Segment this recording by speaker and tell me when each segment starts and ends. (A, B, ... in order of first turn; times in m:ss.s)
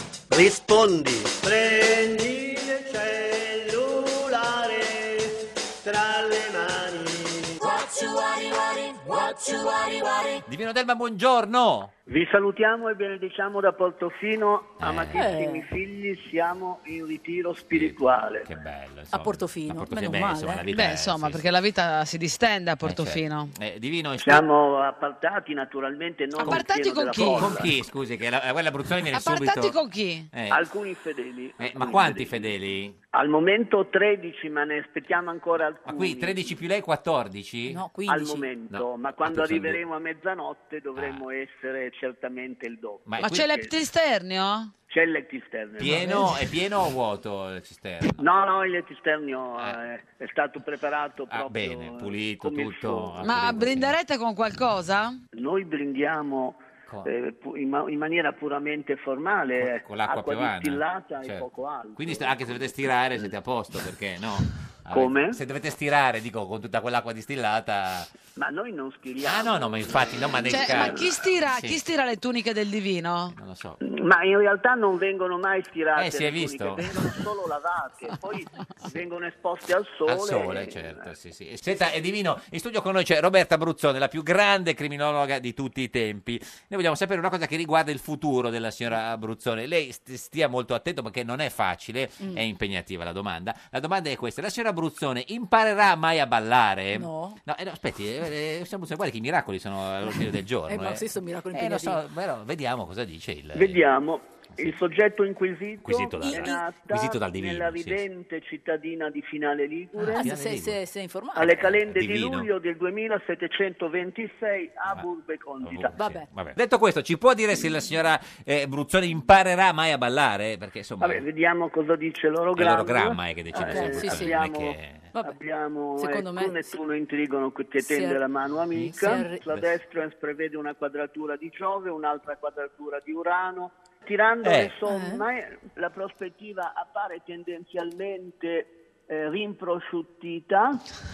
0:00.3-0:10.5 A
0:10.5-0:11.9 B
0:12.1-0:18.5 C
0:14.8-0:15.3 B
0:15.1-0:15.7 D
0:17.7-0:21.5 B
0:19.1-0:20.6 D
0:20.7-0:23.5 E
0:22.8-0:24.5 B
0:24.2-0:27.7 C
0:26.4-0:27.5 E
0:27.2-0:29.8 B
0:29.1-0:30.3 E
0:30.3-0:30.6 B
0:30.5-0:32.6 C
0:31.6-0:33.0 B
0:33.1-0:36.5 C
0:35.8-0:37.8 B
0:37.7-0:38.5 D
0:38.1-0:43.7 C
0:38.7-0:39.8 B
0:41.0-0:41.2 B
0:43.0-0:43.6 B
0:43.2-0:44.7 E
0:44.9-0:46.4 C
0:45.8-0:48.3 B
0:48.2-0:53.2 C
0:49.5-0:49.8 B
0:51.3-0:54.0 B
0:53.2-0:55.2 E
0:55.3-1:03.2 C
0:59.6-1:08.1 B
1:04.9-1:05.4 C
1:08.4-1:11.0 C
1:09.2-1:11.8 B
1:10.5-1:13.4 E
1:13.3-1:13.8 B
1:13.8-1:21.1 C
1:15.9-1:17.2 B
1:20.0-1:43.9 B
1:36.9-1:37.4 D
1:40.7-1:42.0 D
1:43.5-1:50.2 C
1:44.5-1:44.8 B
1:45.8-1:48.0 B
1:46.3-1:46.6 D
1:50.0-1:50.8 B
1:50.0-1:51.7 D
1:51.4-1:55.9 C
1:51.5-1:52.5 B
1:55.6-2:01.2 B
1:56.0-1:56.3 D
2:01.0-2:20.8 C
2:02.5-2:05.1 B
2:03.5-2:04.4 D
2:06.0-2:06.7 D
2:07.8-2:08.2 D
2:08.7-2:09.7 B
2:08.8-2:09.5 D
2:14.4-2:14.8 B
2:14.8-2:15.2 D